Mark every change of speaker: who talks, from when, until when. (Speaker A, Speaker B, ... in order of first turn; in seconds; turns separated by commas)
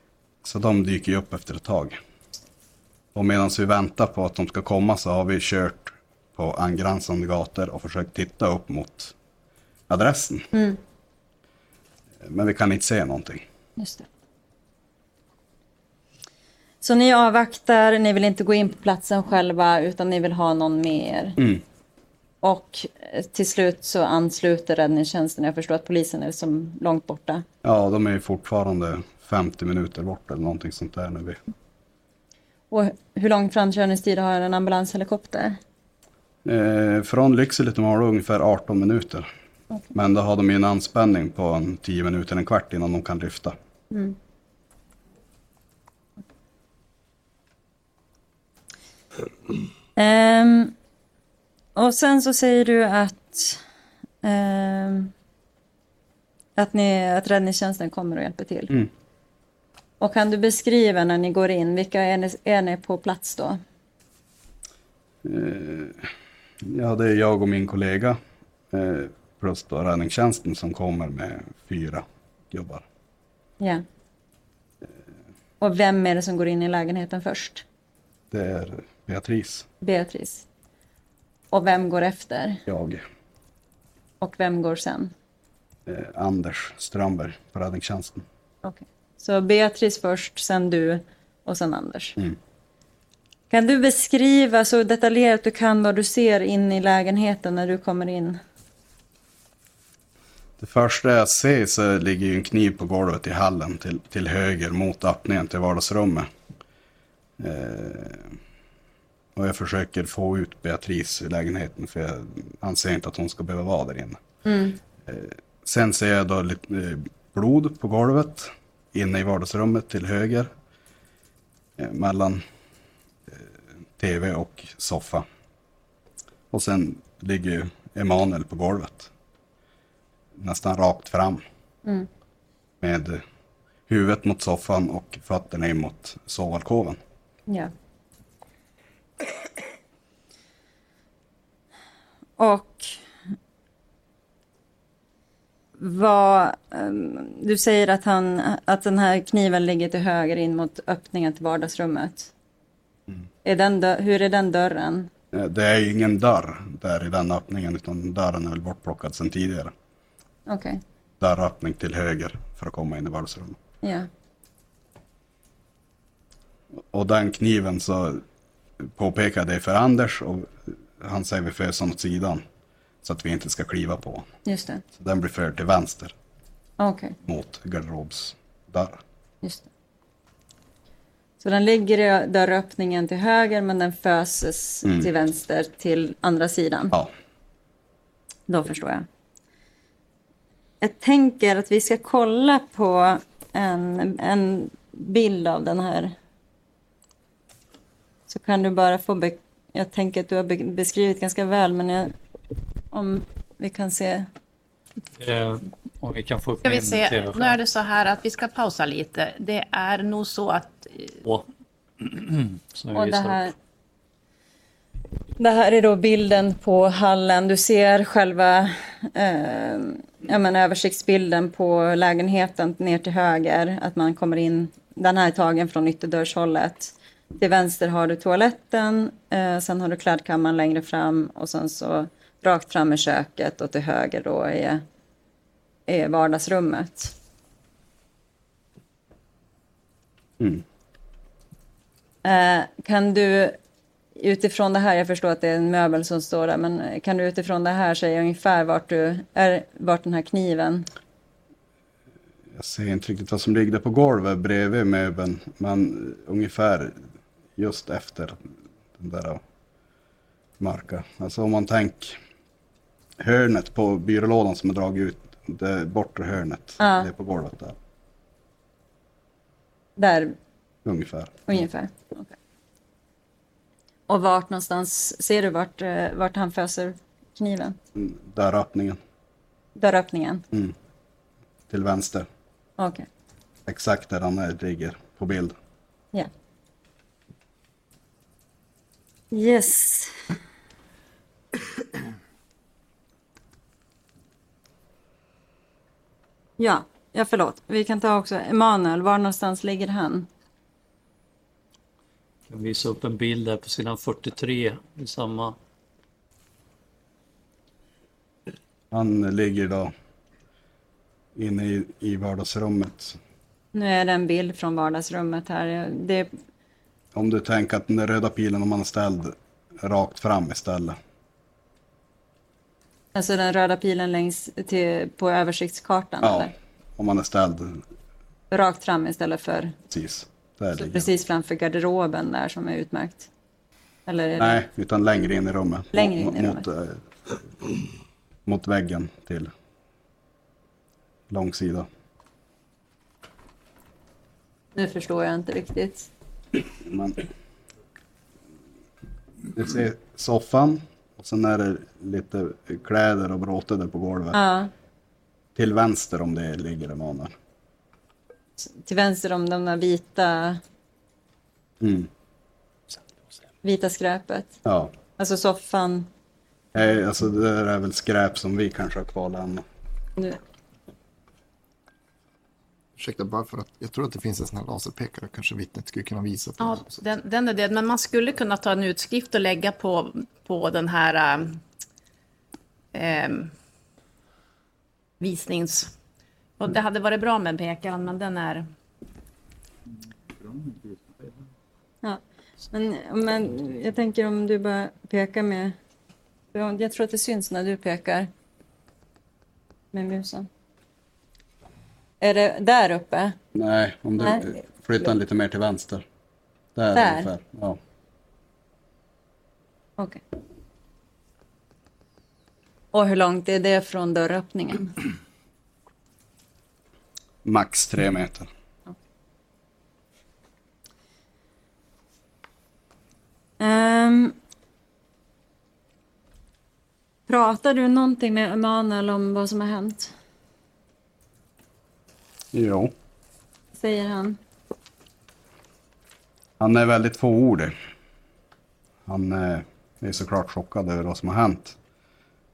Speaker A: 0.4-2.0, Speaker A: 3.1-9.1, Speaker A: 9.9-10.5, Speaker B: 10.5-10.8, Speaker A: 12.2-13.4, Speaker B: 13.8-14.0, Speaker B: 16.8-21.4, Speaker B: 22.4-27.4, Speaker A: 27.6-31.4, Speaker B: 32.7-35.6, Speaker A: 36.4-39.3, Speaker A: 39.9-43.5, Speaker B: 43.9-44.1, Speaker B: 50.0-50.7, Speaker B: 51.8-53.6, Speaker B: 54.2-55.1, Speaker B: 56.6-58.7, Speaker B: 60.0-63.6, Speaker A: 65.2-66.1, Speaker A: 66.6-68.2, Speaker A: 68.7-72.8, Speaker B: 75.6-77.6, Speaker A: 78.3-79.7, Speaker B: 79.8-80.4, Speaker B: 81.5-82.6, Speaker A: 82.7-83.0, Speaker B: 84.2-85.1, Speaker A: 85.8-88.2, Speaker B: 88.6-92.2, Speaker B: 93.5-98.4, Speaker A: 100.6-106.3, Speaker A: 107.4-108.3, Speaker A: 109.3-114.2, Speaker B: 114.4-114.8, Speaker A: 115.0-120.5, Speaker A: 121.8-122.4, Speaker A: 123.3-125.2, Speaker A: 126.5-129.1, Speaker A: 130.3-131.4, Speaker A: 132.8-133.2, Speaker A: 133.9-137.0, Speaker B: 142.4-143.0, Speaker B: 145.8-152.3, Speaker B: 153.4-155.1, Speaker A: 155.3-159.7, Speaker B: 160.5-160.8, Speaker A: 161.2-163.6, Speaker B: 163.8-164.1, Speaker A: 166.9-168.2, Speaker A: 168.8-172.4, Speaker A: 173.0-174.2, Speaker B: 174.4-174.8, Speaker A: 174.9-176.1, Speaker B: 176.8-177.2, Speaker A: 177.2-179.0, Speaker B: 179.4-179.7, Speaker B: 181.4-186.9, Speaker B: 188.5-189.1, Speaker B: 190.8-196.1, Speaker B: 198.3-202.1, Speaker B: 202.9-204.3, Speaker C: 205.2-207.6, Speaker D: 206.6-211.1, Speaker C: 212.0-213.5, Speaker B: 212.9-213.5, Speaker B: 215.4-234.8, Speaker B: 235.9-237.1, Speaker B: 242.2-243.6, Speaker B: 244.2-250.9, Speaker A: 252.5-257.0, Speaker A: 257.6-258.4, Speaker A: 259.0-259.4, Speaker A: 260.6-262.2, Speaker A: 263.2-267.8, Speaker B: 266.8-267.1, Speaker B: 270.0-270.4, Speaker A: 270.8-271.4, Speaker B: 271.5-272.3, Speaker B: 274.1-277.8, Speaker A: 277.9-279.0, Speaker B: 279.8-280.4, Speaker A: 281.7-282.3, Speaker B: 282.8-283.1, Speaker A: 283.7-285.5, Speaker B: 289.3-290.1, Speaker B: 296.6-300.3, Speaker C: 302.5-305.5, Speaker A: 308.9-309.9, Speaker A: 311.4-313.2, Speaker B: 313.7-316.3, Speaker A: 317.1-321.0, Speaker B: 323.1-326.5, Speaker A: 326.2-327.8, Speaker B: 328.5-329.8, Speaker A: 329.9-331.1, Speaker B: 330.8-333.3, Speaker B: 334.1-334.6, Speaker A: 334.4-337.0, Speaker B: 335.9-336.6, Speaker A: 338.4-339.5, Speaker A: 341.3-341.9, Speaker B: 344.7-346.1, Speaker A: 346.8-347.2, Speaker A: 349.5-354.4, Speaker B: 354.3-354.7, Speaker A: 355.5-357.3, Speaker B: 358.6-360.6, Speaker A: 361.8-362.1, Speaker B: 363.6-364.6, Speaker A: 364.6-364.9, Speaker B: 365.2-366.1, Speaker A: 366.7-369.6, Speaker E: 373.0-377.0, Speaker D: 376.6-381.6, Speaker D: 382.9-383.5, Speaker D: 385.2-385.9, Speaker D: 386.6-388.6, Speaker B: 392.7-395.8, Speaker B: 396.5-398.3, Speaker B: 399.9-400.5, Speaker B: 402.2-403.4, Speaker A: 403.5-406.0, Speaker A: 406.7-407.8, Speaker B: 406.9-407.3, Speaker B: 412.9-414.9, Speaker A: 417.4-418.5, Speaker B: 423.6-424.3, Speaker B: 427.3-430.1, Speaker A: 432.5-432.9, Speaker B: 433.7-434.4, Speaker A: 436.6-437.7, Speaker A: 439.1-441.8